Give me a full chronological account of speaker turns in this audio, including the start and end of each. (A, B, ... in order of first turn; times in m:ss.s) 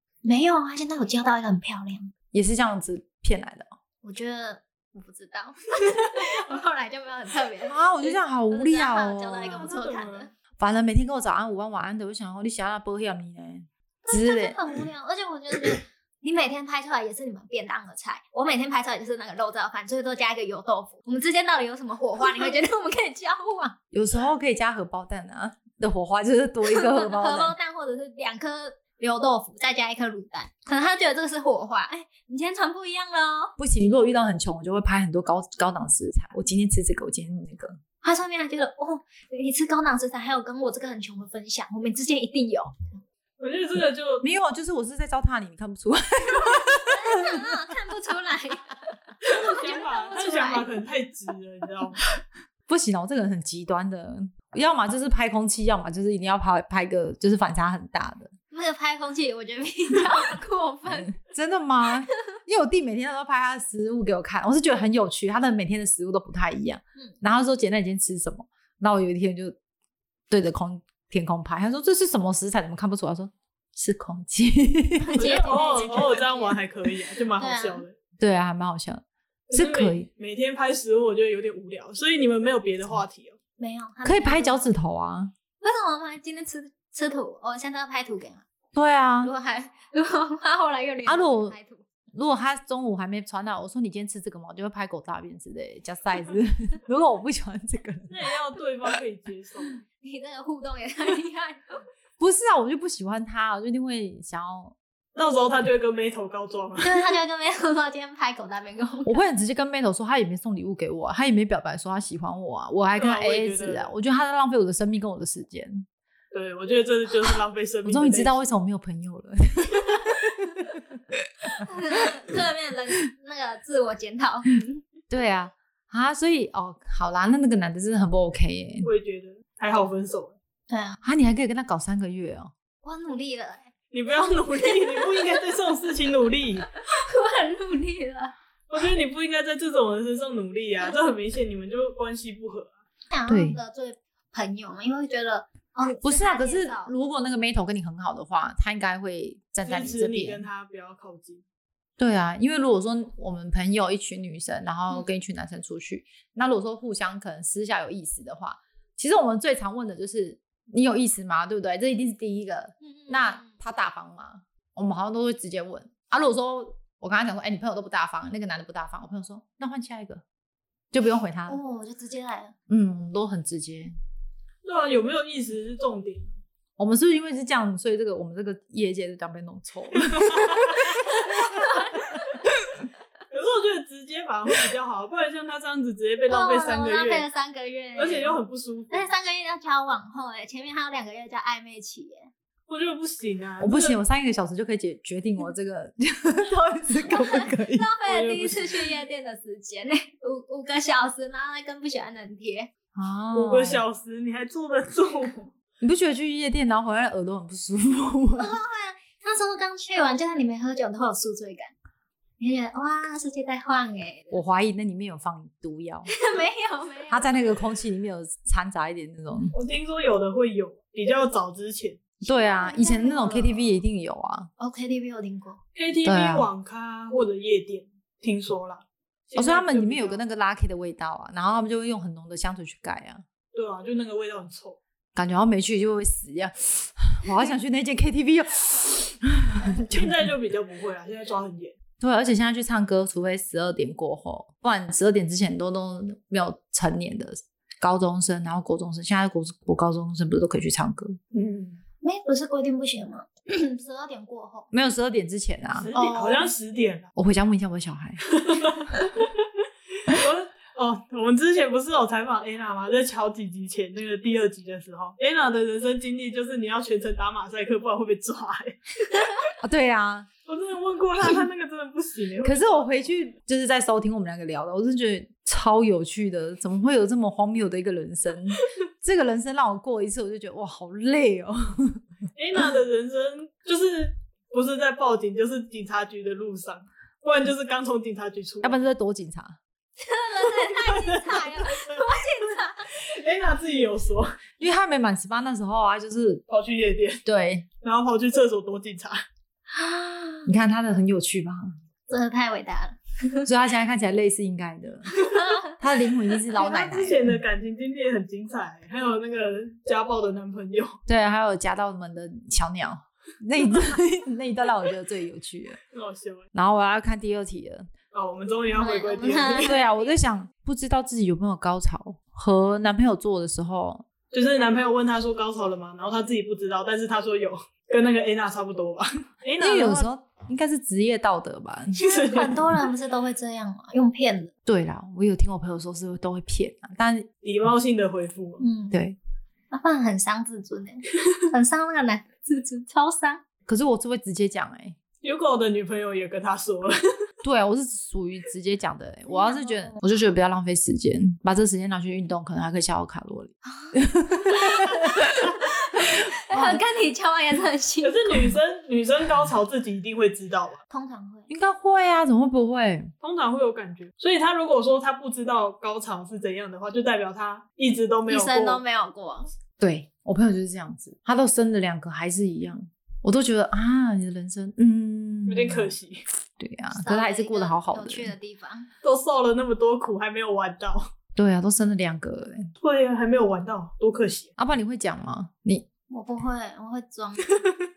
0:00.2-0:02.1 A
0:02.3-0:03.7 B
0:04.0-0:10.3 A
0:07.6-0:09.7 B
0:09.4-0:10.3 C
0:10.6-0:14.6 B
0:14.0-0:23.8 A
0:23.9-0:27.5 B
0:26.6-0:33.5 A
0:33.6-0:37.8 B
0:38.0-0:42.8 A
0:43.4-0:44.2 C
0:44.2-0:47.6 B
0:46.8-0:50.7 A
0:49.2-0:52.0 C
0:52.7-0:58.3 B
0:58.5-1:01.2 A
1:00.9-1:09.5 B
1:10.3-1:16.1 B
1:15.1-1:16.6 A
1:15.1-1:17.9 C
1:17.4-1:17.8 A
1:18.2-1:20.1 B
1:19.5-1:23.4 C
1:23.6-1:24.6 A
1:24.0-1:25.3 B
1:25.6-1:28.4 A
1:28.8-1:29.3 B
1:29.2-1:31.8 A
1:31.0-1:31.6 B
1:32.1-1:38.1 B
1:38.1-1:39.8 C
1:40.0-1:41.8 A
1:42.2-1:44.8 B
1:45.2-1:47.1 C
1:46.8-1:49.2 A
1:49.0-1:55.9 B
1:53.0-1:53.9 C
1:56.3-1:58.4 C
1:57.8-2:01.2 B
2:01.5-2:04.8 A
2:05.1-2:08.9 B
2:08.8-2:10.4 C
2:10.7-2:11.0 A
2:11.0-2:12.5 B
2:12.8-2:13.7 A
2:13.9-2:16.7 C
2:14.6-2:15.3 A
2:16.9-2:18.3 A
2:18.7-2:22.7 C
2:23.1-2:26.9 A
2:23.3-2:23.6 B
2:26.0-2:30.4 B
2:29.6-2:31.4 C
2:32.0-2:50.2 B
2:42.8-2:43.5 A
2:50.9-2:51.6 B
2:51.5-2:52.6 A
2:52.7-2:53.9 B
2:54.6-2:56.3 C
2:56.8-3:01.6 B
3:00.1-3:00.8 C
3:01.4-3:01.9 A
3:03.3-3:07.2 C
3:06.3-3:08.3 A
3:08.0-3:09.0 C
3:08.9-3:12.3 A
3:12.7-3:14.0 C
3:13.6-3:17.9 B
3:17.1-3:22.7 A
3:18.1-3:18.8 C
3:22.9-3:23.8 B
3:23.3-3:25.5 C
3:25.8-3:28.5 B
3:28.4-3:31.7 A
3:32.4-3:34.4 A
3:34.3-3:36.1 B
3:36.1-3:37.4 A
3:37.1-3:39.5 B
3:39.5-3:42.0 C
3:42.2-3:44.5 B
3:42.2-3:43.7 A
3:44.6-3:45.6 A
3:45.8-3:50.2 C
3:46.0-3:46.5 B
3:49.4-3:53.2 B
3:53.5-3:54.8 C
3:55.1-4:00.2 B
3:59.6-4:01.8 C
4:02.0-4:11.2 B
4:11.3-4:11.8 C
4:12.0-4:14.7 A
4:14.7-4:15.9 B
4:15.8-4:17.1 C
4:15.9-4:16.5 A
4:17.2-4:18.2 B
4:18.3-4:19.4 C
4:20.0-4:29.4 C
4:29.6-4:30.3 B
4:30.4-4:33.1 C
4:32.4-4:42.0 B
4:42.4-4:48.8 C
4:48.6-4:49.6 B
4:50.0-4:52.9 A
4:50.6-4:52.2 C
4:52.9-4:54.4 C
4:54.6-4:56.4 B
4:56.5-4:57.2 C
4:57.2-4:57.7 B
4:57.8-4:59.2 C
4:59.7-5:00.5 A
5:00.4-5:01.7 B
5:02.1-5:03.5 A
5:03.4-5:05.2 B
5:05.3-5:05.7 A
5:05.7-5:07.4 B
5:06.6-5:11.0 C
5:11.0-5:15.8 B
5:15.9-5:16.5 C
5:16.5-5:17.9 B
5:18.1-5:19.7 C
5:18.7-5:20.1 A
5:19.6-5:24.1 B
5:24.3-5:30.1 C
5:29.6-5:32.0 B
5:32.0-5:32.7 C
5:32.0-5:34.5 A
5:34.6-5:37.3 B
5:37.4-5:38.6 C
5:38.6-5:39.0 A
5:38.9-5:39.2 B
5:39.7-5:43.4 A
5:43.6-5:45.0 B
5:45.2-5:46.9 C
5:47.4-5:55.5 B
5:49.3-5:50.0 A
5:54.6-5:58.4 A
5:56.1-5:56.8 B
5:58.0-6:00.8 C
6:00.9-6:01.5 A
6:01.5-6:03.1 B
6:03.2-6:08.8 C
6:08.3-6:09.5 A
6:09.8-6:15.9 B
6:15.4-6:16.2 C
6:16.6-6:18.3 B
6:16.9-6:18.9 A
6:19.0-6:21.1 C
6:21.4-6:22.7 B
6:22.8-6:24.5 C
6:24.6-6:25.9 B
6:26.1-6:27.6 A